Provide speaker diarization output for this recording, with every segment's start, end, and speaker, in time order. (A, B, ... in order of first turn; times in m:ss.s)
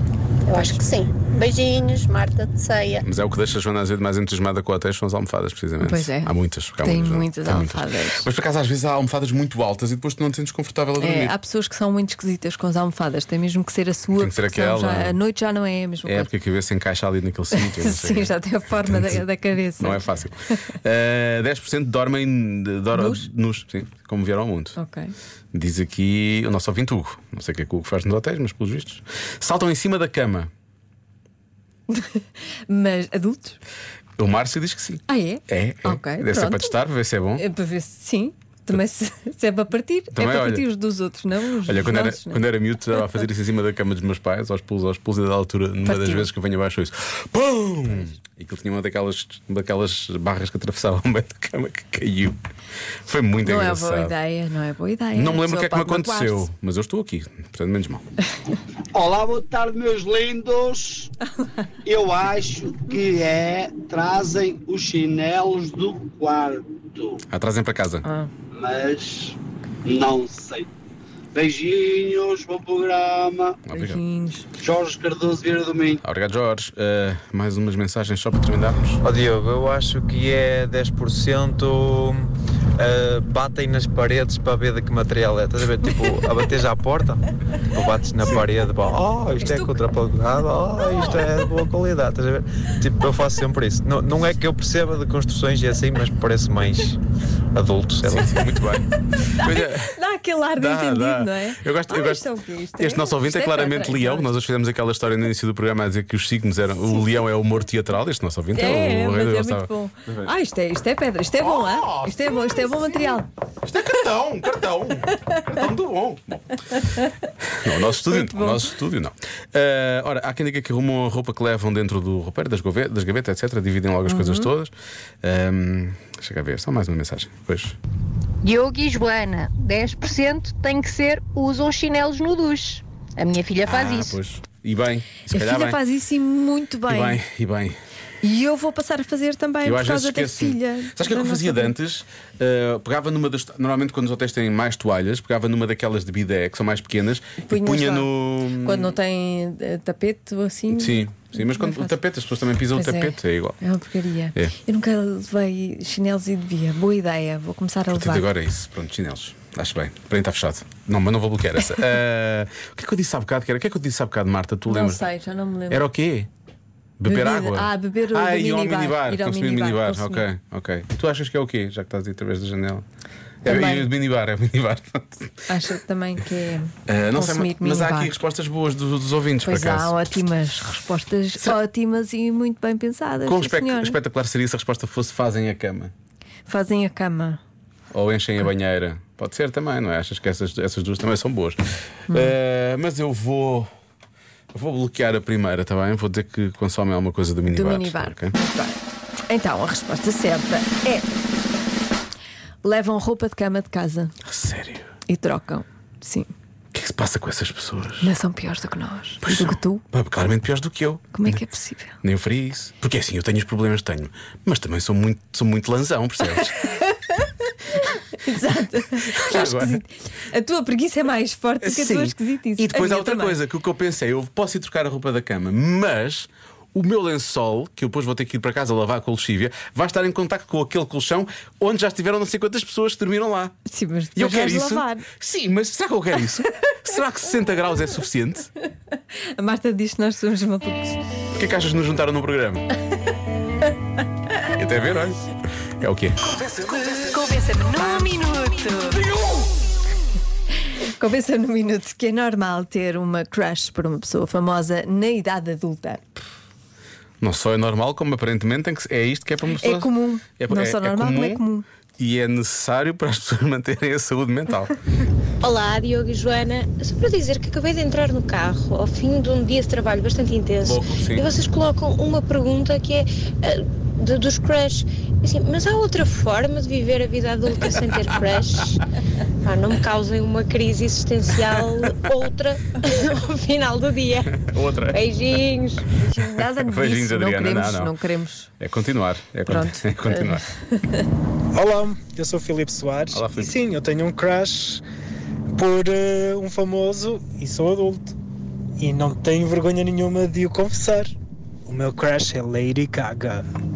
0:00.5-0:03.0 A
0:03.0-0:11.4 B
0:05.8-0:08.3 C
0:11.0-0:16.3 C
0:14.2-0:15.2 B
0:16.0-0:19.2 B
0:17.5-0:20.6 C
0:19.8-0:24.8 B
0:22.9-0:23.2 C
0:24.8-0:25.1 C
0:25.5-0:30.5 B
0:31.9-0:33.6 C
0:34.2-0:37.4 B
0:35.1-0:36.8 C
0:37.4-0:42.4 C
0:40.1-0:40.7 B
0:41.6-0:52.4 B
0:45.8-0:46.3 C
0:53.0-0:54.2 B
0:53.4-0:56.5 C
0:55.2-0:58.0 B
0:58.9-1:01.1 D
1:01.8-1:07.2 D
1:07.3-1:08.0 B
1:08.0-1:08.3 C
1:08.6-1:10.7 D
1:11.4-1:13.6 D
1:13.7-1:14.0 B
1:13.7-1:14.5 C
1:14.6-1:16.0 D
1:16.0-1:19.0 B
1:19.0-1:27.2 E
1:27.7-1:37.0 E
1:37.5-1:38.3 E
1:38.0-1:40.0 B
1:39.1-1:44.3 C
1:40.6-1:42.3 B
1:42.8-1:50.3 B
1:48.5-1:53.3 C
1:51.4-1:53.0 B
1:53.6-1:56.6 B
1:57.4-2:07.8 B
1:58.0-1:58.7 C
2:04.1-2:04.5 C
2:08.4-2:14.1 F
2:13.6-2:15.8 B
2:15.3-2:17.2 C
2:16.9-2:17.8 B
2:18.2-2:21.8 C
2:19.6-2:29.0 B
2:27.5-2:31.9 C
2:30.7-2:33.6 B
2:32.7-2:38.3 C
2:37.9-2:45.1 B
2:44.7-2:45.8 C
2:45.7-2:46.3 B
2:47.0-2:52.8 B
2:47.1-2:50.2 C
2:53.4-2:55.5 B
2:53.4-2:53.9 C
2:55.5-2:58.2 C
2:56.9-3:00.0 B
2:59.4-3:04.0 C
3:03.2-3:05.9 B
3:06.5-3:07.4 C
3:07.9-3:13.7 B
3:14.5-3:18.4 B
3:17.5-3:18.8 C
3:19.3-3:21.2 C
3:22.6-3:24.2 C
3:24.2-3:24.9 B
3:25.1-3:26.3 C
3:26.7-3:28.1 B
3:28.0-3:29.8 C
3:29.2-3:31.4 B
3:31.1-3:32.0 C
3:32.0-3:36.7 B
3:38.1-3:43.4 C
3:39.0-3:39.8 B
3:41.6-3:53.6 B
3:53.7-3:55.1 C
3:54.2-3:58.5 B
3:59.4-4:01.0 C
4:01.4-4:02.7 B
4:04.5-4:05.2 B
4:05.8-4:06.4 B
4:06.9-4:09.1 C
4:10.7-4:16.1 C
4:17.2-4:21.4 B
4:19.6-4:21.6 C
4:22.0-4:24.8 B
4:25.4-4:38.8 G
4:30.6-4:31.3 B
4:39.4-4:45.9 G
4:44.3-4:45.2 B
4:46.0-4:48.5 C
4:46.4-4:47.9 B
4:48.6-4:50.4 B
4:49.5-4:51.1 C
4:51.5-4:54.8 H
4:53.1-4:53.6 B
4:55.5-4:58.2 H
4:58.8-5:01.2 H
5:01.7-5:03.5 H